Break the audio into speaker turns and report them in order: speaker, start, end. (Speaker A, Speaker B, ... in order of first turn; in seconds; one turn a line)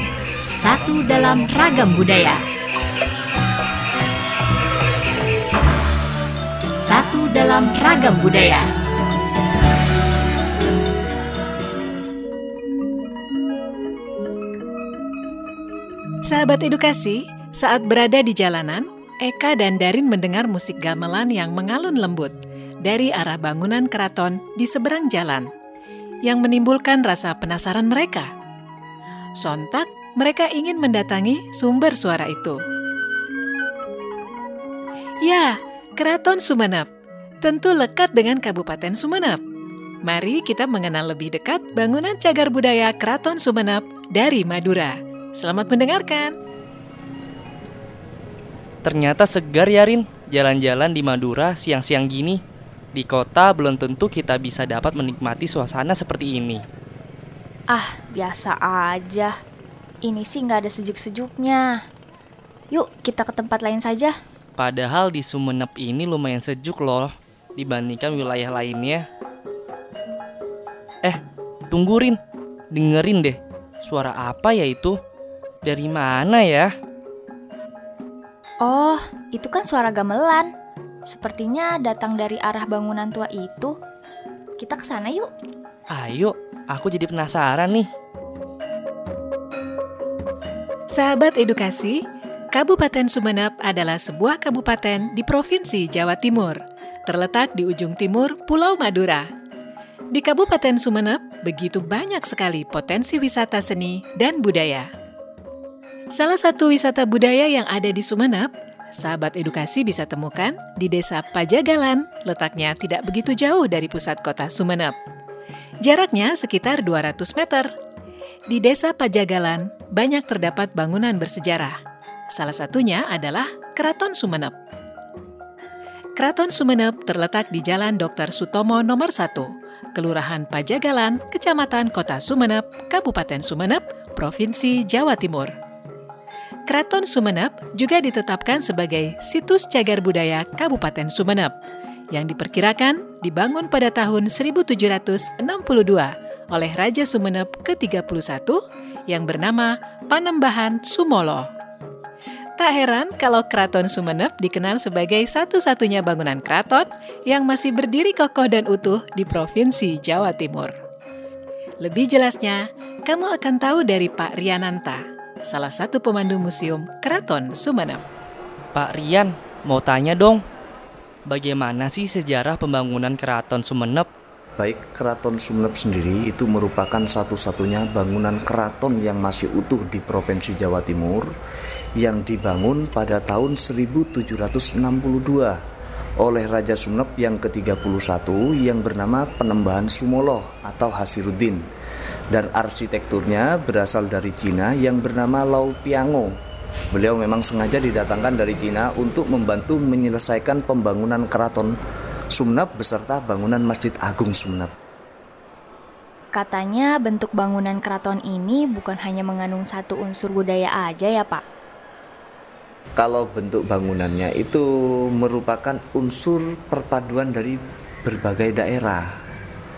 Speaker A: 0.5-2.4
Speaker A: 6.7-8.7
Speaker B: 16.3-25.5
Speaker B: 26.3-28.3
Speaker B: 29.4-32.6
Speaker B: 35.2-36.9
Speaker B: 37.4-39.4
Speaker B: 40.0-46.4
Speaker C: 48.8-52.4
Speaker C: 52.9-56.6
Speaker D: 57.7-59.4
Speaker D: 60.0-61.8
Speaker D: 62.7-64.2
Speaker C: 64.6-69.1
Speaker C: 71.0-72.2
Speaker C: 72.7-75.0
Speaker C: 75.6-76.7
Speaker D: 78.6-80.5
Speaker D: 81.1-83.8
Speaker D: 84.6-85.3
Speaker C: 85.9-87.9
Speaker B: 90.9-99.3
Speaker B: 100.1-104.9
Speaker B: 106.1-115.0
Speaker B: 115.8-117.7
Speaker B: 118.5-121.8
Speaker B: 122.3-124.6
Speaker B: 126.2-135.5
Speaker B: 136.7-141.6
Speaker B: 142.1-151.5
Speaker B: 152.6-160.8
Speaker B: 161.8-168.0
Speaker C: 168.7-170.4
Speaker C: 171.3-174.1
Speaker E: 174.6-181.3
Speaker E: 182.0-185.6
Speaker E: 186.2-191.7
Speaker E: 192.3-196.4
Speaker E: 196.9-201.7
Speaker E: 202.3-204.7
Speaker D: 206.3-211.4
Speaker E: 213.0-219.2